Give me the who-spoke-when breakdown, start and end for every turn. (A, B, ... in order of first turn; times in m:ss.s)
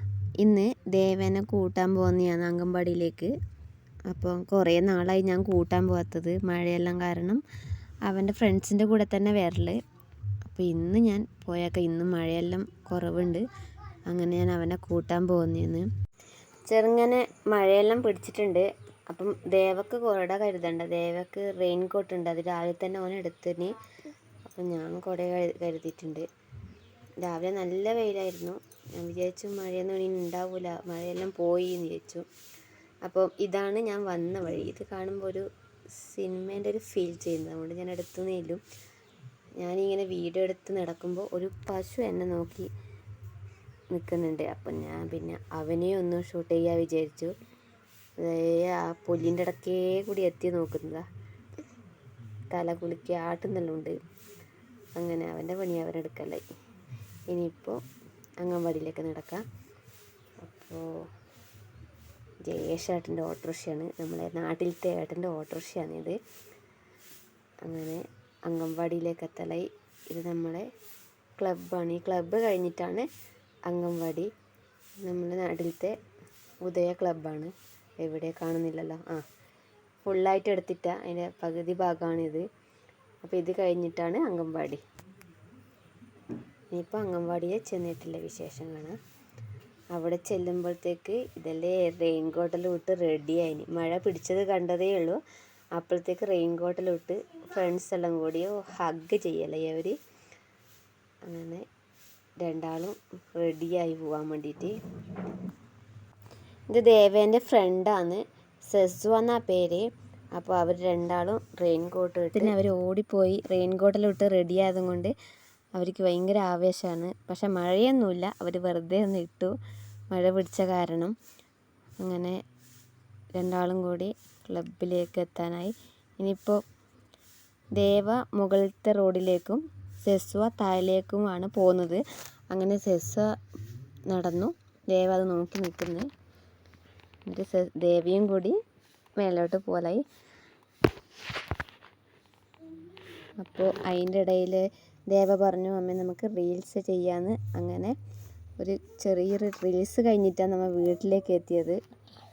0:00.4-0:03.3 A
0:04.1-0:07.4 A
0:08.0-0:09.8 A
0:10.5-0:13.4 A
0:14.1-0:15.9 A
0:16.7-0:23.8 A
0:24.5-0:26.3 A
0:27.2-0:32.3 A
0:33.0-0:38.6 A
0:39.6-0:42.7 A
0:43.9-0:47.3 A
0:48.2-0:51.0 A
0:52.5-0:54.0 A
0:55.0-0:56.4 A
0:57.3-0:57.8 A
0:58.4-0:59.4 A
1:00.4-1:00.8 A
1:02.4-1:06.2 A
1:07.6-1:10.7 A
1:11.4-1:13.1 A
1:13.7-1:14.3 A
1:15.0-1:16.0 A
1:16.6-1:19.2 A
1:20.0-1:22.4 A
1:23.2-1:24.8 A
1:26.7-1:29.0 A
1:29.9-1:35.2 A
1:35.8-1:40.0 A
1:41.2-1:41.6 A
1:42.4-1:44.8 A
1:46.7-1:55.1 A
1:55.8-1:59.5 A
2:00.1-2:01.1 A
2:02.0-2:02.4 A
2:03.4-2:06.6 A
2:07.8-2:13.3 A
2:14.1-2:16.1 A
2:17.3-2:18.6 A
2:19.2-2:20.0 A
2:23.4-2:28.0 A
2:28.6-2:31.8 A